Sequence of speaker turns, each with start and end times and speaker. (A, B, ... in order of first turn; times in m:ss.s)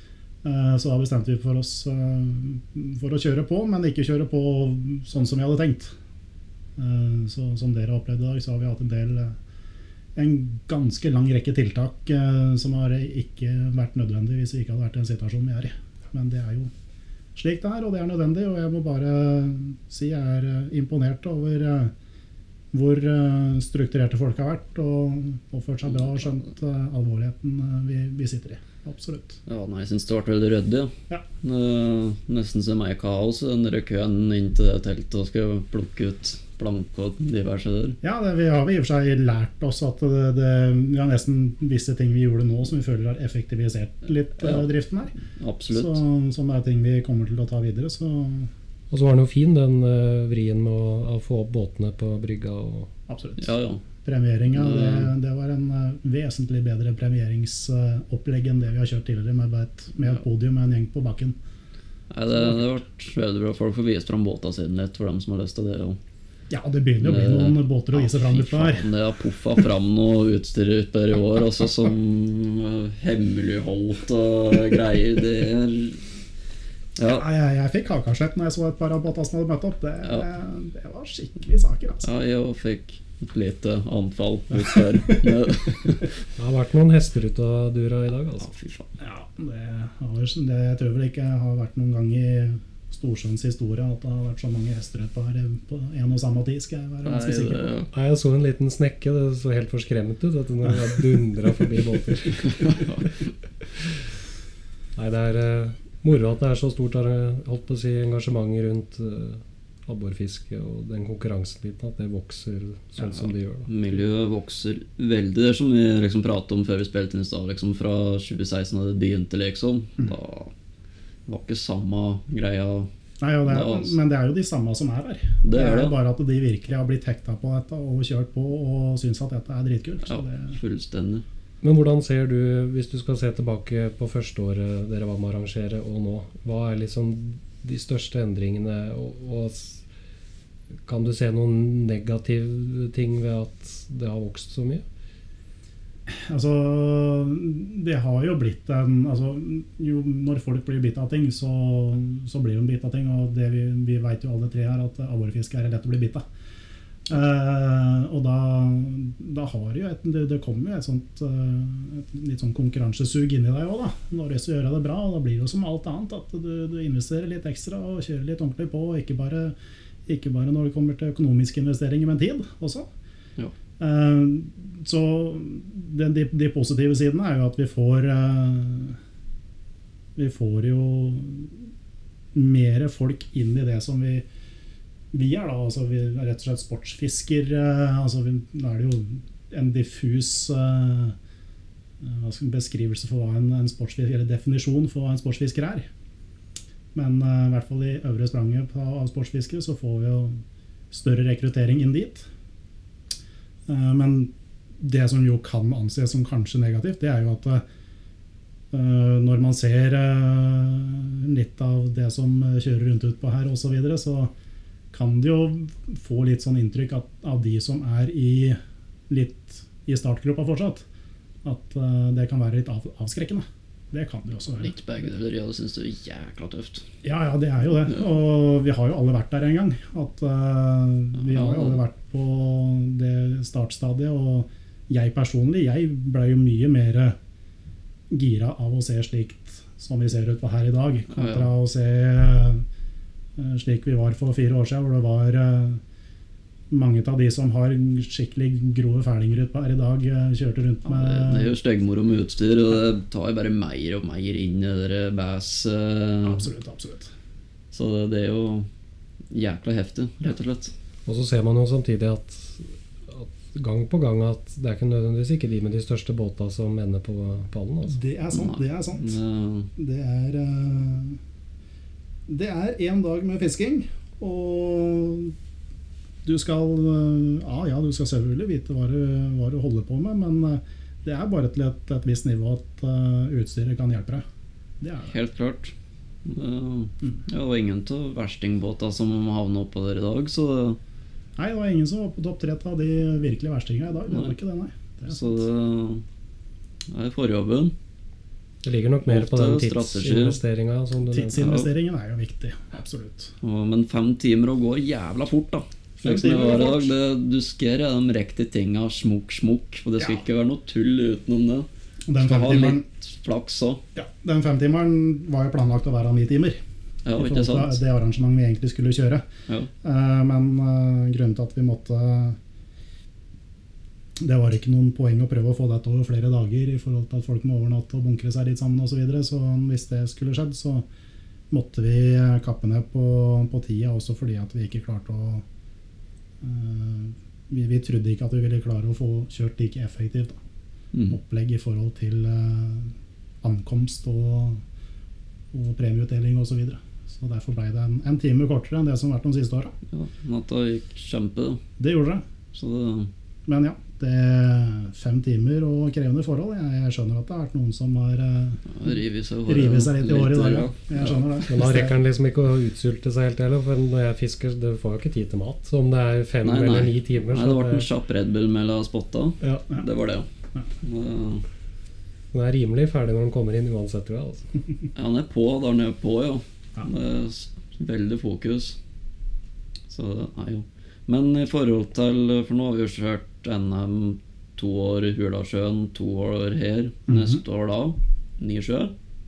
0:00.4-0:05.9 A
0:06.8-0:09.4 A
0:10.2-0:16.7 A
0:17.4-0:21.9 A
0:22.7-0:29.4 A
0:29.5-0:38.0 B
0:38.0-0:45.2 A
0:44.4-0:44.7 B
0:45.4-0:46.0 B
0:45.7-0:48.5 A
0:48.9-0:52.9 C
0:53.1-1:01.4 A
0:53.4-0:53.8 B
0:54.5-0:55.1 B
1:02.1-1:06.0 B
1:06.5-1:08.9 A
1:07.0-1:16.0 B
1:17.0-1:17.3 B
1:17.0-1:22.1 A
1:22.0-1:26.1 B
1:24.5-1:25.8 A
1:26.4-1:28.5 C
1:28.4-1:28.9 B
1:29.0-1:37.7 A
1:37.0-1:37.9 B
1:37.9-1:42.7 C
1:42.6-1:43.2 B
1:45.0-1:53.7 C
1:53.7-2:00.5 B
2:01.3-2:02.9 B
2:03.2-2:10.6 A
2:03.4-2:04.0 B
2:05.4-2:06.0 B
2:10.0-2:11.2 B
2:11.6-2:19.8 C
2:20.9-2:24.8 C
2:26.1-2:36.2 A
2:37.1-2:49.6 A
2:50.1-2:52.9 A
2:53.8-2:59.0 A
3:00.2-3:01.6 A
3:02.3-3:04.2 A
3:05.1-3:11.2 A
3:12.0-3:15.9 A
3:16.9-3:22.3 A
3:23.7-3:27.6 A
3:28.7-3:34.3 A
3:34.9-3:40.8 A
3:41.4-3:44.7 A
3:44.6-3:46.9 B
3:47.0-3:57.2 A
3:51.2-3:51.8 B
3:58.1-4:02.6 A
4:01.1-4:01.5 B
4:03.4-4:05.8 A
4:06.7-4:11.5 A
4:10.9-4:16.5 B
4:16.2-4:17.1 A
4:17.7-4:18.7 B
4:19.3-4:20.7 B
4:21.1-4:28.0 C
4:27.9-4:29.2 A
4:28.3-4:29.7 B
4:29.8-4:31.2 A
4:32.3-4:35.3 A
4:36.2-4:44.2 A
4:44.8-4:45.1 A
4:45.1-4:45.7 B
4:46.2-4:50.8 B
4:51.4-4:55.4 A
4:54.1-4:54.4 B
4:55.1-4:56.0 B
4:56.9-4:57.8 B
4:58.6-5:01.6 C
4:59.0-5:00.4 B
5:01.1-5:03.3 A
5:01.4-5:01.7 B
5:03.4-5:13.8 B
5:06.0-5:06.9 A
5:12.1-5:12.8 A
5:14.0-5:16.6 A
5:17.0-5:17.8 B
5:17.2-5:19.2 A
5:19.8-5:22.4 A
5:24.2-5:30.9 A
5:31.5-5:35.4 A
5:36.4-5:40.4 A
5:41.1-5:44.6 A
5:45.5-5:49.8 A
5:49.9-5:51.6 B
5:51.8-5:52.2 A
5:52.5-5:53.1 B
5:53.5-5:58.9 A
5:58.7-6:01.4 B
5:59.5-6:02.0 A
6:01.5-6:07.9 C
6:06.4-6:10.3 B
6:09.4-6:09.9 A
6:10.8-6:11.4 B
6:12.3-6:14.5 C
6:15.0-6:18.8 B
6:19.9-6:28.9 B
6:27.1-6:27.4 A